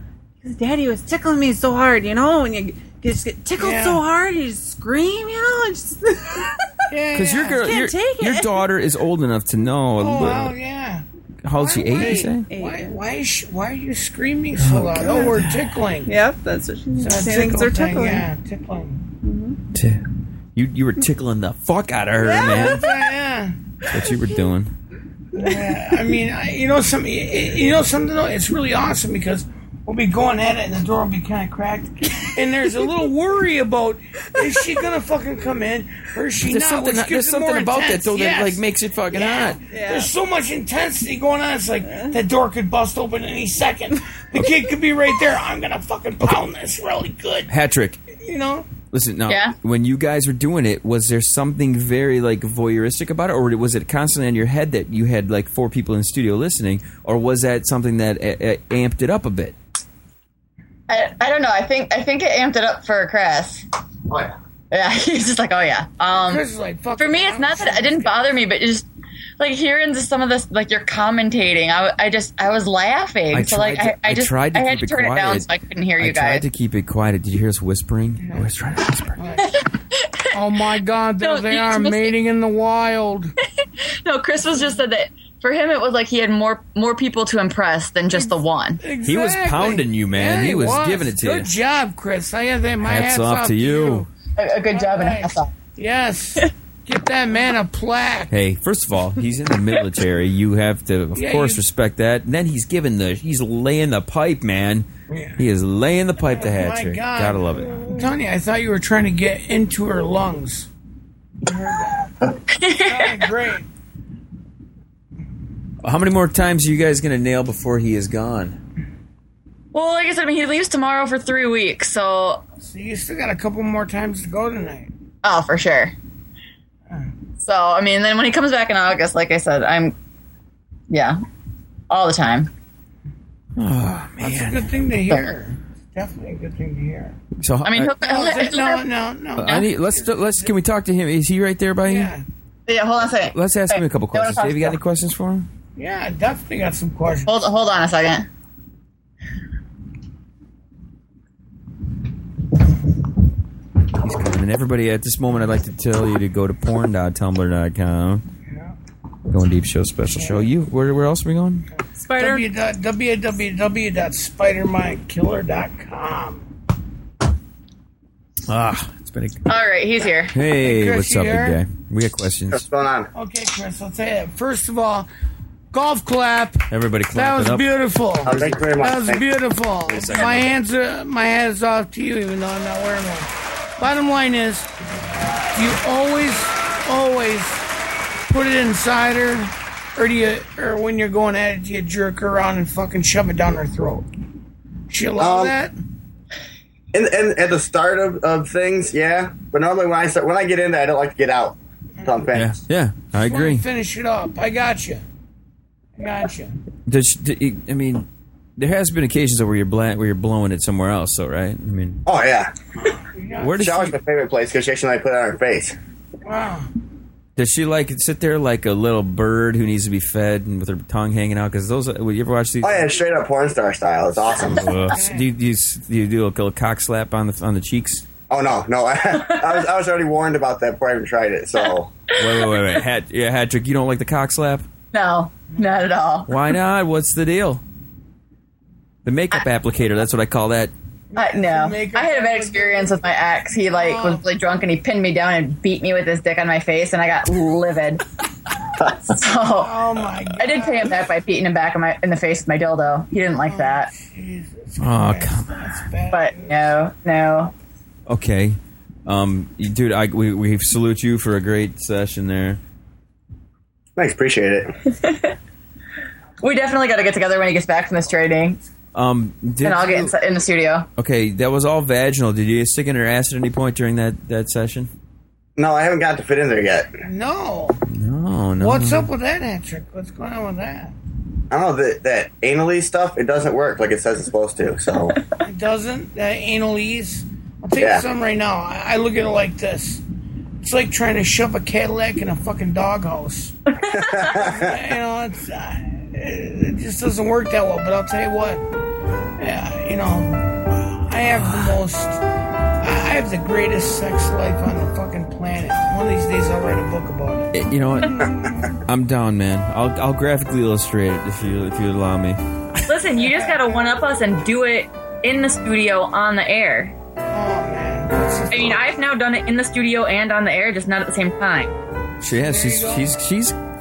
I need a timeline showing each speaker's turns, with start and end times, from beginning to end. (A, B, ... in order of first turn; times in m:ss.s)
0:00.4-0:06.7 A
0:03.6-0:04.0 B
0:06.9-0:07.7 B
0:07.1-0:10.6 C
0:07.6-0:08.7 A
0:10.0-0:16.1 B
0:11.4-0:12.5 C
0:12.5-0:13.0 A
0:14.6-0:15.4 C
0:16.0-0:18.3 A
0:17.0-0:19.0 B
0:19.2-0:19.6 A
0:19.7-0:22.9 C
0:22.2-0:23.6 B
0:23.9-0:24.7 C
0:25.3-0:47.5 B
0:25.4-0:25.8 A
0:36.4-0:39.6 C
0:39.7-0:40.1 A
0:41.8-0:42.2 A
0:47.5-0:48.0 C
0:48.2-0:48.7 B
0:48.9-0:59.5 C
0:49.3-0:49.6 D
1:00.9-1:03.6 D
1:04.7-1:06.4 D
1:06.1-1:08.4 B
1:07.0-1:08.9 D
1:09.4-1:16.5 D
1:13.3-1:15.5 C
1:16.0-1:19.2 C
1:18.2-1:18.5 B
1:19.2-1:19.6 B
1:19.4-1:20.3 D
1:20.3-1:23.3 B
1:21.2-1:22.1 D
1:23.8-1:28.8 D
1:28.2-1:34.1 B
1:29.0-1:31.5 C
1:32.8-1:34.1 C
1:34.4-1:35.5 D
1:34.7-1:38.3 B
1:38.3-1:44.9 C
1:41.1-1:41.6 B
1:45.1-1:45.4 B
1:45.4-1:48.0 C
1:46.3-1:50.7 B
1:51.4-1:53.7 B
1:52.5-1:53.2 D
1:55.8-1:58.6 C
1:59.7-2:02.4 D
2:02.6-2:04.9 B
2:05.2-2:06.0 D
2:07.4-2:10.0 D
2:10.9-2:11.2 D
2:11.9-2:12.5 D
2:13.6-2:14.7 C
2:14.2-2:17.2 B
2:17.4-2:17.9 C
2:17.6-2:18.9 D
2:18.0-2:20.6 B
2:19.4-2:22.1 C
2:21.8-2:22.2 B
2:22.7-2:24.8 D
2:23.3-2:25.5 C
2:25.8-2:27.4 B
2:27.3-2:28.3 D
2:34.0-2:38.2 C
2:38.5-2:38.7 B
2:39.3-2:41.7 C
2:40.1-2:40.5 B
2:42.0-2:42.5 A
2:42.2-2:46.5 B
2:48.5-2:49.4 C
2:49.5-2:50.4 D
2:50.3-2:52.6 C
2:50.5-2:51.6 B
2:52.5-2:53.1 E
2:53.1-2:55.1 B
2:55.7-3:04.7 B
2:56.7-2:57.7 C
2:58.2-2:59.2 E
2:59.9-3:00.5 C
3:05.5-3:07.6 B
3:08.3-3:14.1 B
3:14.9-3:15.8 B
3:15.2-3:15.6 E
3:16.9-3:22.5 E
3:22.3-3:23.6 C
3:23.1-3:25.0 B
3:26.0-3:26.6 B
3:26.9-3:28.1 C
3:28.6-3:32.0 C
3:32.1-3:32.5 E
3:32.8-3:33.6 B
3:33.4-3:34.0 C
3:33.6-3:35.8 E
3:36.2-3:36.7 B
3:37.4-3:42.9 C
3:42.6-3:44.7 E
3:44.4-3:48.1 C
3:44.7-3:45.3 B
3:48.3-3:52.0 E
3:52.2-3:54.6 C
3:52.2-3:52.8 D
3:54.9-3:56.4 D
3:56.3-3:57.6 C
3:59.0-4:00.7 C
4:01.1-4:04.2 B
4:01.2-4:08.1 D
4:08.8-4:09.8 D
4:09.5-4:11.0 B
4:10.4-4:13.9 D
4:13.4-4:16.7 B
4:14.8-4:15.6 C
4:16.1-4:17.5 D
4:18.1-4:22.6 C
4:24.0-4:24.8 E
4:24.9-4:25.4 D
4:26.4-4:28.6 D
4:28.9-4:30.1 C
4:29.6-4:30.9 D
4:31.0-4:34.9 C
4:35.6-4:36.9 E
4:37.0-4:37.8 B
4:37.9-4:39.1 C
4:38.6-4:40.9 B
4:41.5-4:45.2 E
4:45.4-4:50.0 B
4:47.8-4:48.0 E
4:50.6-4:53.6 B
4:53.9-4:54.8 E
4:54.2-4:58.6 B
4:59.4-5:02.2 B
5:02.8-5:07.5 B
5:07.5-5:12.9 C
5:08.2-5:08.7 B
5:12.9-5:17.0 D
5:13.2-5:14.0 B
5:17.3-5:18.9 B
5:18.5-5:21.8 D
5:22.2-5:23.6 C
5:22.3-5:23.2 B